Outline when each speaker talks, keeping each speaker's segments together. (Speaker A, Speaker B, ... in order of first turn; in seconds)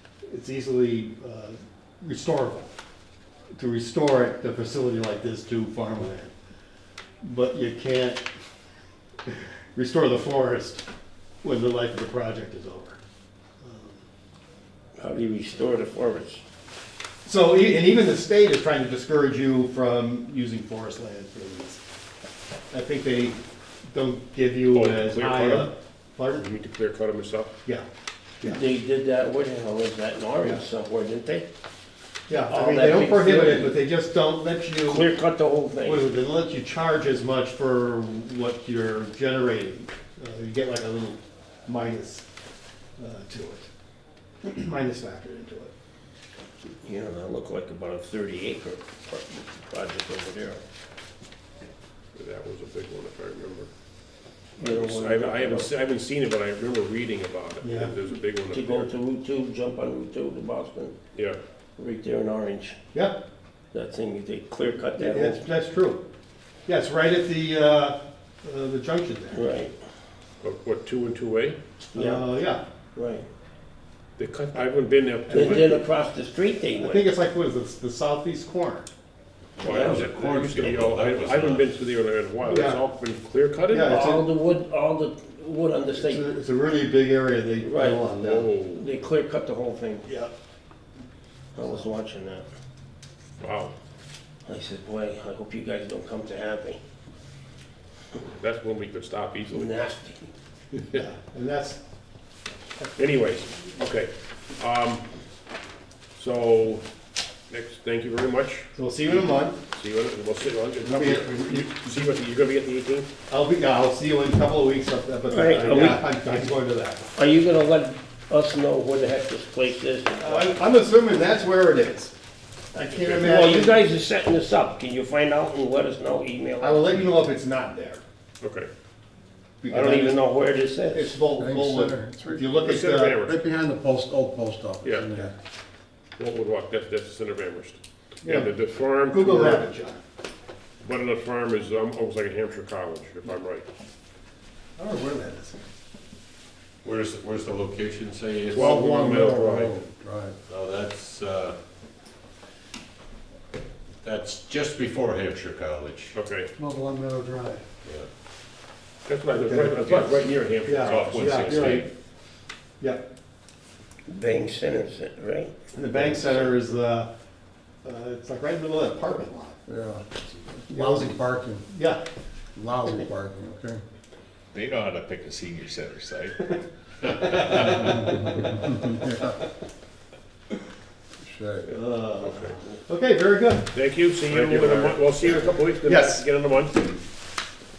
Speaker A: 0.3-2.7, 3.5-6.3, 7.2-8.2, 9.3-10.8, 11.4-13.0, 13.6-14.0, 17.2-21.8, 22.7-23.4, 23.9-26.5, 32.3-35.1, 35.8-42.2, 43.0-43.7, 44.4-45.7, 57.6-57.9, 62.9-63.2, 65.0-66.0, 66.7-69.4, 71.9-72.6, 75.3-75.7, 76.8-78.9, 82.4-82.8, 83.7-84.3, 85.9-88.5, 90.0-90.3, 100.9-101.8, 108.7-109.6, 110.8-111.7, 113.3-117.1, 120.2-122.1, 122.7-123.8, 126.6-128.0, 129.6-130.3, 130.9-133.3, 138.2-138.5, 139.1-140.0, 144.8-145.6, 156.6-157.6, 159.4-160.0, 160.6-161.9, 165.7-167.1, 167.8-169.6, 170.7-172.0, 181.7-183.7, 184.3-186.2
Speaker B: 15.0-16.4, 28.4-31.5, 32.5-33.8, 34.8-36.2, 46.8-50.6, 54.6-55.7, 58.5-61.0, 61.8-62.8, 63.7-65.5, 69.3-69.7, 71.9-72.4, 72.9-73.3, 75.3-77.1, 79.6-80.0, 83.8-86.2, 87.6-88.1, 88.8-90.0, 91.5-92.5, 94.5-96.8, 99.5-100.3, 115.3-116.1, 117.2-120.3, 123.2-126.9, 129.7-131.2, 164.1-166.5
Speaker C: 24.7-25.7, 26.3-27.5, 52.1-53.7, 54.6-58.9, 61.1-61.4, 70.4-71.6, 74.2-75.8, 79.6-84.0, 88.1-88.9, 93.4-93.7, 98.2-99.7, 103.0-105.0, 106.2-106.8, 107.5-108.7, 109.7-113.1, 115.5-116.0, 122.9-123.2, 128.4-128.7, 132.6-133.4, 134.8-135.1, 136.2-139.7, 140.8-143.6, 148.5-149.8, 156.1-156.5, 159.1-161.8, 181.7-182.6, 183.7-186.9
Speaker D: 79.6-81.7, 146.8-148.6, 150.5-151.6, 154.0-156.2, 161.0-161.8
Speaker E: 131.4-132.5, 133.1-135.3, 148.5-150.3, 169.7-170.0, 170.6-171.6, 172.6-173.8, 177.8-179.4, 181.2-181.7
Speaker F: 160.7-161.9, 174.5-176.4, 177.1-178.2